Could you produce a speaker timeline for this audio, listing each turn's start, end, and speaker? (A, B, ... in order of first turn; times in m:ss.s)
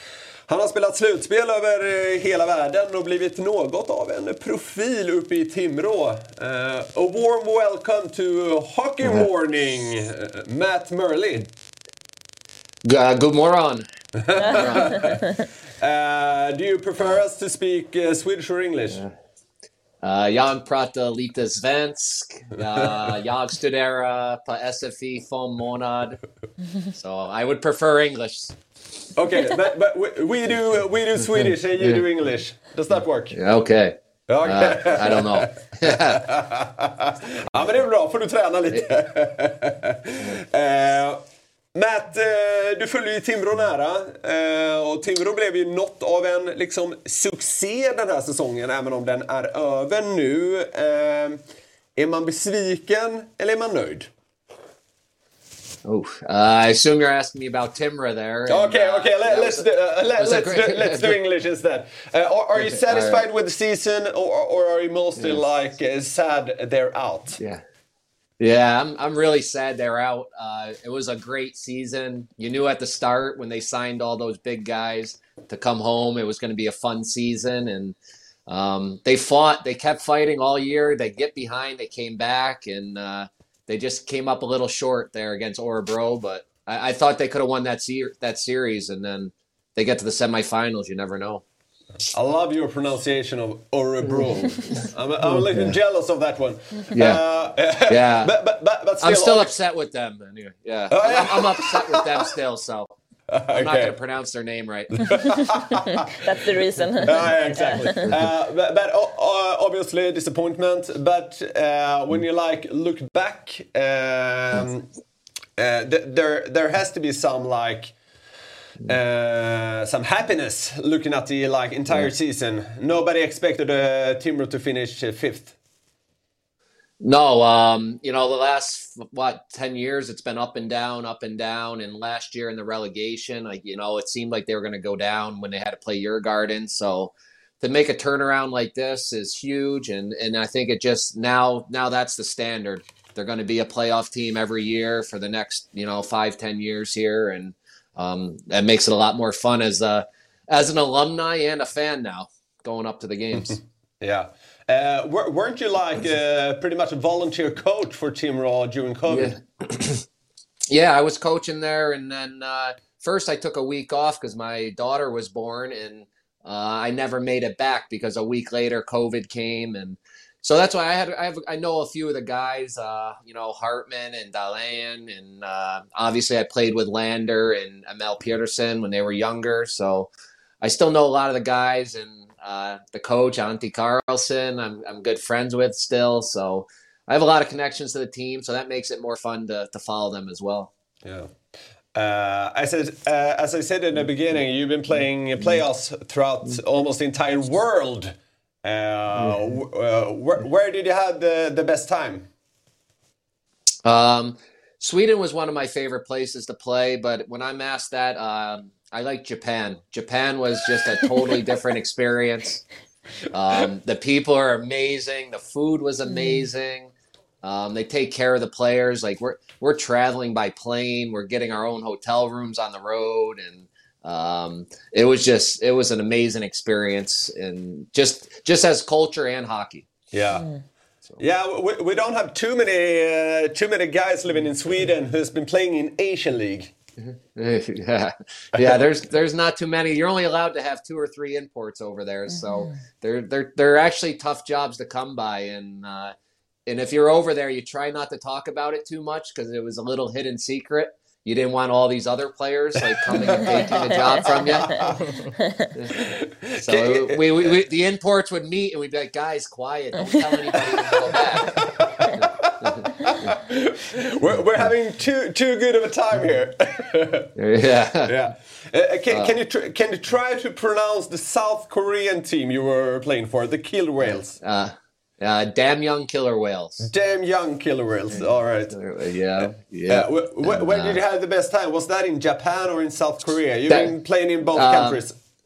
0:00.5-0:11.5 A
0:12.8-0:15.1 B
0:14.2-0:15.2 A
0:14.4-0:15.2 C
0:15.8-0:19.0 A
0:20.0-0:26.2 B
0:27.0-0:28.6 B
0:29.2-0:33.4 A
0:31.4-0:32.0 B
0:33.3-0:36.3 B
0:34.3-0:41.2 A
0:41.7-0:51.4 A
0:52.0-0:54.1 A
0:55.9-1:01.2 B
0:58.5-1:07.4 A
1:02.6-1:03.3 B
1:05.2-1:05.4 B
1:08.4-1:18.0 B
1:18.5-1:31.4 B
1:32.1-1:39.6 A
1:34.0-1:35.7 B
1:36.9-1:37.2 B
1:37.9-1:38.3 B
1:39.0-1:42.9 B
1:40.9-1:42.3 A
1:43.3-1:44.0 A
1:43.5-1:45.2 B
1:44.9-1:46.1 A
1:45.9-1:48.1 C
1:47.0-1:54.9 A
1:55.6-1:57.9 A
1:58.8-2:05.5 A
2:07.0-2:33.6 B
2:33.4-2:39.4 A
2:39.1-2:40.0 B
2:40.7-3:00.1 B
3:00.6-3:10.7 B
3:11.0-3:11.3 A
3:12.0-3:22.3 A
3:19.2-3:19.5 B
3:23.8-3:32.6 B
3:33.3-3:49.9 B
3:36.2-3:36.4 C
3:50.1-3:50.5 A
3:51.2-3:56.7 A
3:57.0-4:06.1 B
4:06.7-4:15.0 B
4:13.1-4:15.0 A
4:15.7-4:23.3 B
4:16.0-4:17.6 A
4:20.8-4:27.3 A
4:27.4-4:28.1 B
4:28.1-4:34.4 A
4:34.1-4:36.9 B
4:36.8-4:38.8 A
4:38.1-4:41.0 B
4:39.4-4:45.2 A
4:43.7-4:43.9 B
4:44.5-4:45.0 B